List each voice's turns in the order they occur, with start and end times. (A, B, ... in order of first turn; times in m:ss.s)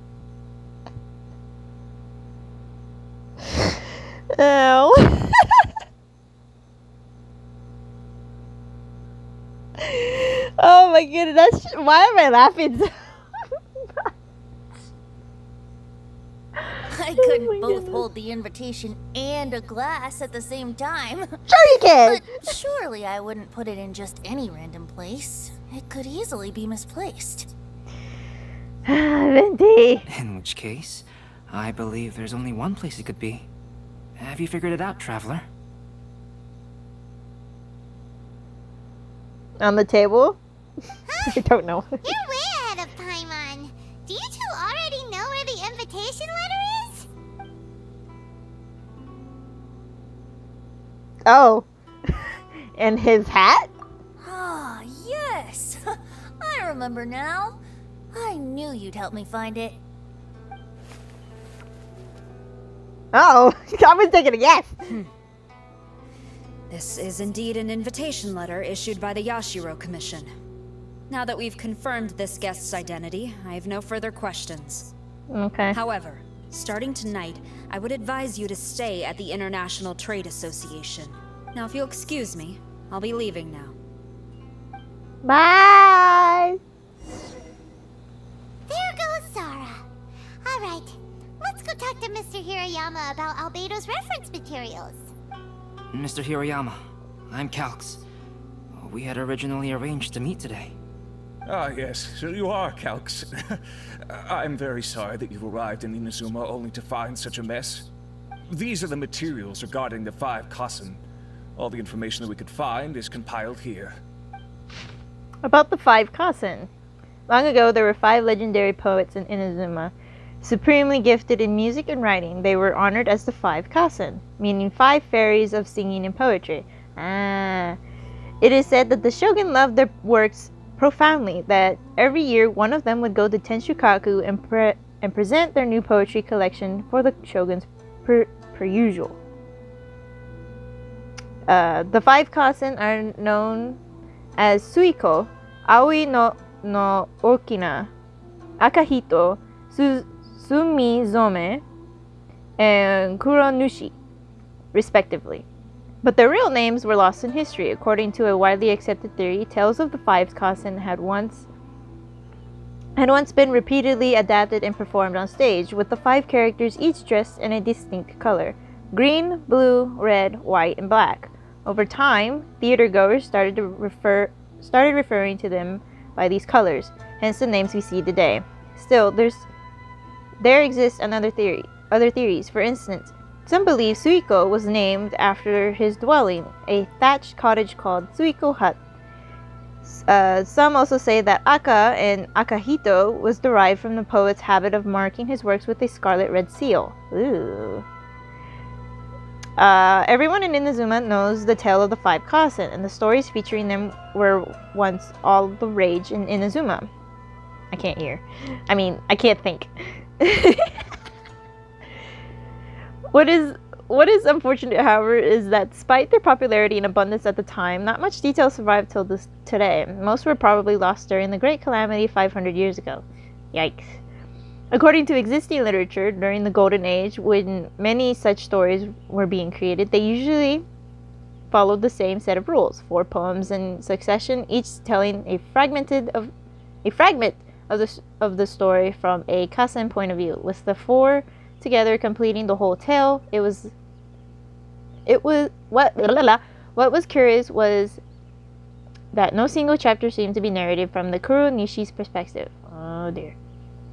0:04.3-0:05.5 A
0:09.8-0:12.9 A
0:16.9-0:27.5 B
0:17.2-0:18.0 A
0:21.5-0:22.3 A
0:28.9-0:30.0 A
0:30.1-0:33.5 C
0:34.2-0:35.5 C
0:39.6-0:40.4 A
0:41.1-0:41.4 D
0:41.3-0:42.0 A
0:42.0-0:47.1 D
0:51.3-0:53.7 A
0:54.2-0:57.6 B
0:58.1-0:59.8 B
1:03.1-1:04.8 A
1:06.7-1:10.3 E
1:11.1-1:14.9 E
1:15.3-1:15.8 A
1:15.7-1:23.8 E
1:25.2-1:26.6 A
1:28.7-1:29.8 D
1:30.4-1:35.1 D
1:35.9-1:38.0 C
1:38.7-1:40.8 C
1:41.5-1:47.9 F
1:48.5-1:51.0 F
1:51.6-1:54.0 F
1:55.4-1:56.7 A
1:57.3-2:07.8 A
2:08.4-2:19.2 A
2:21.5-2:23.8 A
2:24.4-2:27.9 A
2:28.6-2:31.6 A
2:32.6-2:33.9 A
2:34.7-2:35.5 A
2:36.0-2:41.5 A
2:43.0-2:59.5 A
3:00.4-3:08.8 A
3:09.8-3:17.8 A
3:19.6-3:26.9 A
3:27.7-3:30.8 A
3:33.1-3:44.0 A
3:44.7-3:50.6 A
3:51.5-3:56.3 A
3:56.8-4:03.7 A
4:05.1-4:08.0 A
4:09.1-4:13.4 A